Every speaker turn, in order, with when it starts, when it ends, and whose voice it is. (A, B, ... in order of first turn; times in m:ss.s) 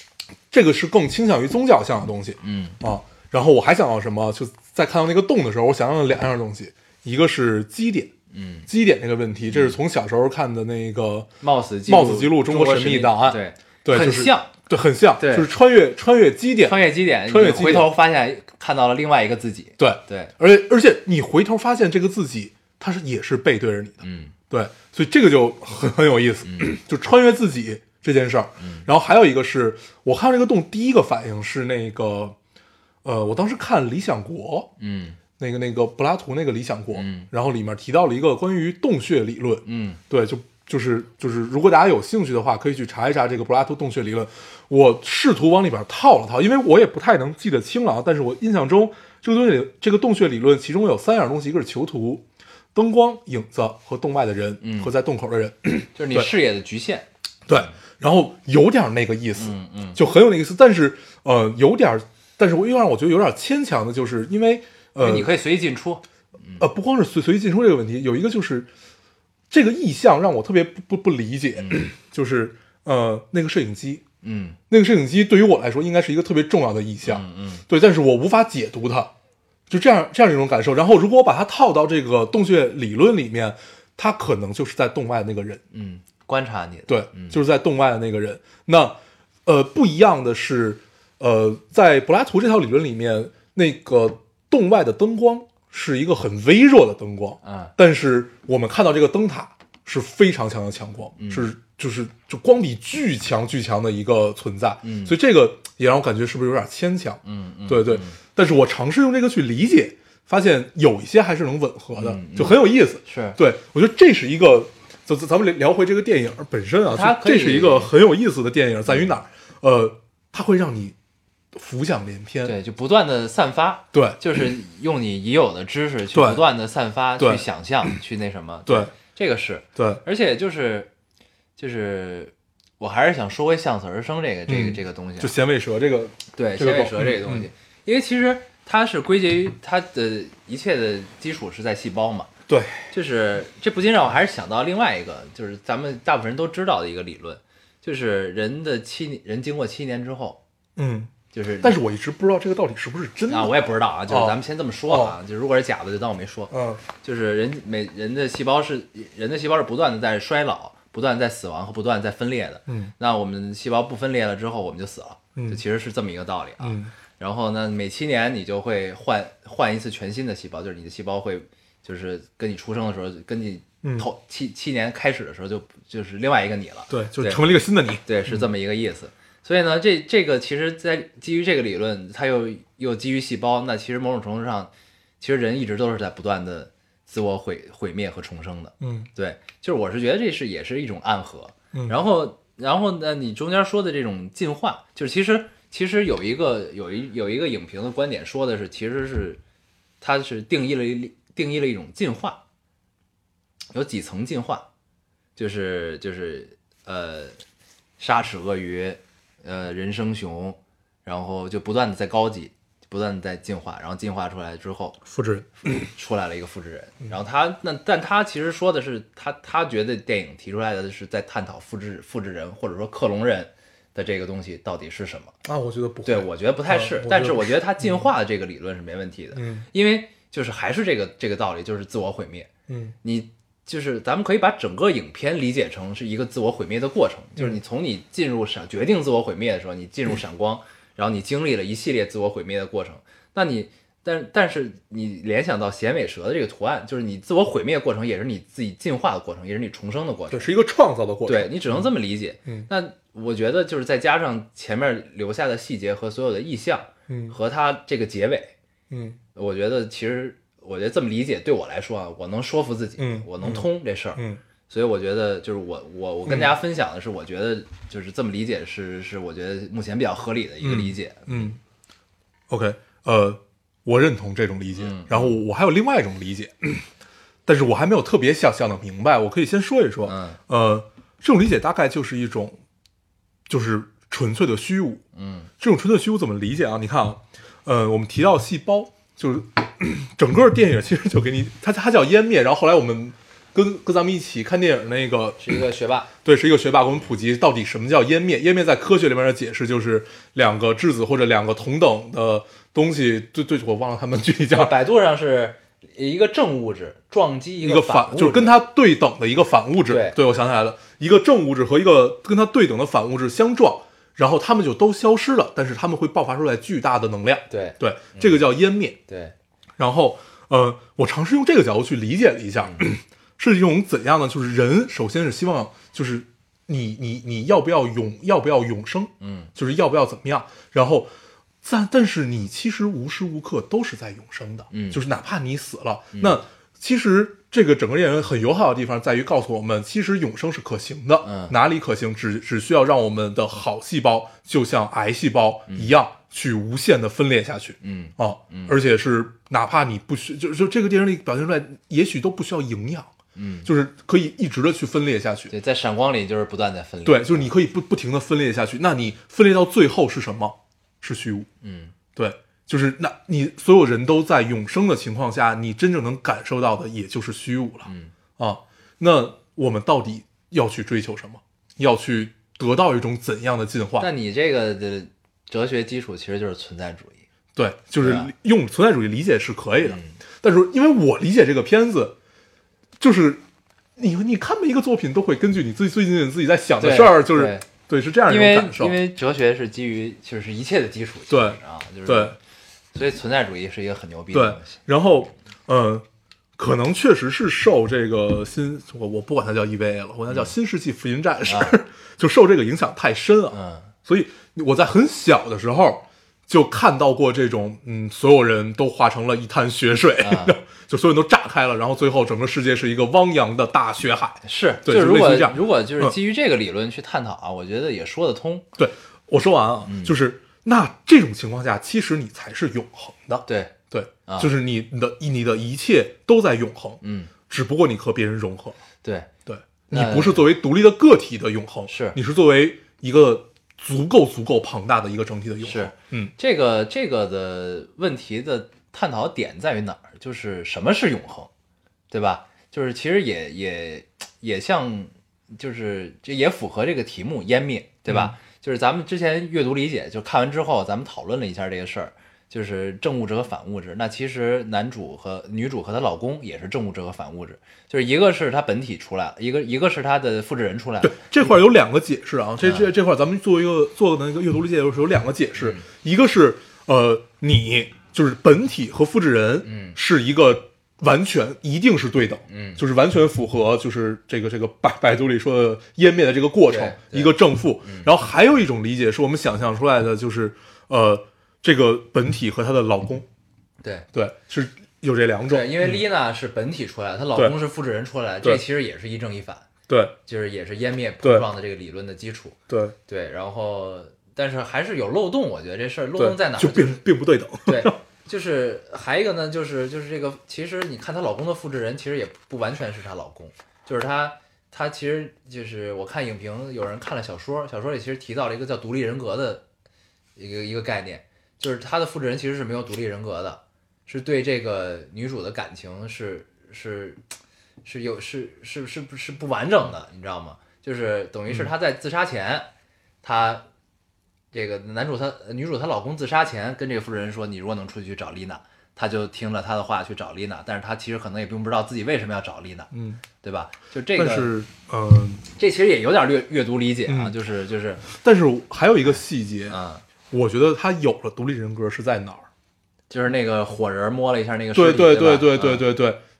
0:00.5-0:08.1 A
0:02.4-0:02.8 B
0:08.3-0:08.7 B
0:08.7-0:11.3 A
0:09.5-0:09.8 B
0:11.4-0:14.5 B
0:11.9-0:17.9 A
0:15.2-0:15.5 B
0:16.6-0:20.3 B
0:19.8-0:32.4 A
0:24.0-0:24.3 B
0:26.4-0:26.7 B
0:28.6-0:28.9 B
0:33.0-0:34.7 A
0:34.8-0:35.2 B
0:35.4-0:56.3 A
0:36.9-0:37.3 B
0:39.6-0:40.0 B
0:54.6-0:54.9 B
0:56.0-0:57.7 B
0:57.5-1:05.3 A
0:59.4-1:00.0 B
1:05.0-1:06.6 B
1:06.6-1:08.7 A
1:09.5-1:14.0 A
1:11.6-1:11.8 B
1:14.2-1:14.6 B
1:14.7-1:19.1 A
1:17.0-1:17.6 B
1:19.7-1:25.6 A
1:25.7-1:27.4 B
1:26.9-2:01.0 A
1:37.4-1:37.7 B
1:41.2-1:41.5 B
1:44.8-1:45.2 B
1:47.2-1:48.2 B
1:52.0-1:53.4 B
1:56.9-1:57.9 B
2:01.5-2:02.6 A
2:02.4-2:10.9 B
2:03.9-2:04.2 A
2:06.1-2:06.4 A
2:07.2-2:07.9 A
2:08.7-2:08.9 A
2:09.8-2:10.0 A
2:11.6-2:15.3 B
2:14.5-2:17.5 A
2:16.3-2:22.3 B
2:22.5-2:22.9 A
2:22.9-2:30.4 B
2:30.8-2:33.6 A
2:31.3-2:31.8 B
2:33.3-2:57.4 B
2:34.1-2:35.2 A
2:36.5-2:36.8 A
2:42.7-2:42.9 A
2:45.4-2:45.6 A
2:46.6-2:46.9 A
2:53.8-2:54.1 A
2:56.9-2:58.4 A
2:58.0-3:19.4 B
3:08.8-3:09.1 A
3:20.0-3:22.4 B
3:23.7-3:24.6 B
3:25.4-3:27.4 B
3:28.0-3:35.0 B
3:35.1-3:35.9 A
3:35.6-3:45.3 B
3:45.4-3:48.1 A
3:46.0-3:52.5 B
3:49.3-3:49.7 A
3:52.7-3:53.0 A
3:53.0-4:10.5 B
4:10.3-4:11.9 A
4:11.3-4:18.5 B
4:17.1-4:17.4 A
4:18.9-4:19.2 A
4:19.4-4:31.5 B
4:23.0-4:24.4 A
4:26.3-4:26.5 A
4:30.6-4:31.6 A
4:32.5-4:36.9 A
4:34.8-4:35.4 B
4:37.5-4:42.6 A
4:40.0-4:40.4 B
4:43.5-4:45.0 A
4:45.1-4:45.5 B
4:45.6-4:55.6 A
4:55.4-4:56.1 B
4:56.2-5:04.7 A
5:04.5-5:08.5 B
5:07.6-5:19.0 A
5:09.9-5:10.2 B
5:17.5-5:18.4 B
5:19.1-5:19.3 B
5:19.8-5:31.1 A
5:22.6-5:22.9 B
5:29.2-5:29.5 B
5:31.6-5:53.1 A
5:34.7-5:35.0 B
5:36.1-5:36.4 B
5:41.2-5:41.6 B
5:47.8-5:48.8 B
5:53.4-5:53.7 B
5:53.6-5:55.5 A
5:55.5-5:57.5 B
5:57.0-6:01.5 A
6:01.6-6:01.9 B
6:02.2-6:14.1 A
6:07.8-6:08.1 B
6:14.0-6:17.2 B
6:17.6-6:22.2 A
6:18.0-6:18.3 B
6:19.8-6:20.2 B
6:23.0-6:23.4 A
6:24.0-6:29.0 A
6:26.8-6:27.7 B
6:28.3-6:32.4 B
6:31.3-6:32.4 A
6:32.9-6:34.8 B
6:34.3-6:36.0 A
6:36.6-6:56.2 A
6:40.3-6:40.5 B
6:41.4-6:41.8 B
6:43.5-6:43.9 B
6:50.2-6:50.6 B
6:54.4-6:58.7 B
6:58.8-7:08.8 A
6:59.9-7:00.2 B
7:03.5-7:03.7 B
7:04.3-7:04.5 B
7:07.0-7:07.3 B
7:09.0-7:09.3 B
7:09.5-7:16.3 A
7:09.9-7:10.5 B
7:11.9-7:12.2 B
7:15.6-7:21.5 B
7:22.1-7:41.6 B
7:28.1-7:28.4 A
7:41.0-8:03.3 A
7:42.6-7:42.9 B
7:45.6-7:45.9 B
7:49.6-7:50.0 B
7:52.5-7:52.8 B
7:56.7-7:58.1 B
8:04.1-8:06.0 A
8:05.5-8:09.7 B
8:09.9-8:10.2 A
8:10.3-8:17.0 B
8:11.2-8:11.5 A
8:12.7-8:13.0 A
8:16.2-8:18.0 A
8:17.7-8:29.6 B
8:30.4-8:37.2 B
8:37.8-8:42.7 B
8:43.2-8:43.6 B
8:44.5-8:52.9 B
8:52.9-8:53.2 A
8:53.4-8:54.5 B
8:54.2-8:55.4 A
8:55.6-8:58.0 B
8:57.1-8:57.3 A
8:58.0-8:59.8 A
8:59.0-9:00.0 B
9:00.3-9:02.5 A
9:03.1-9:05.8 B
9:04.7-9:06.2 A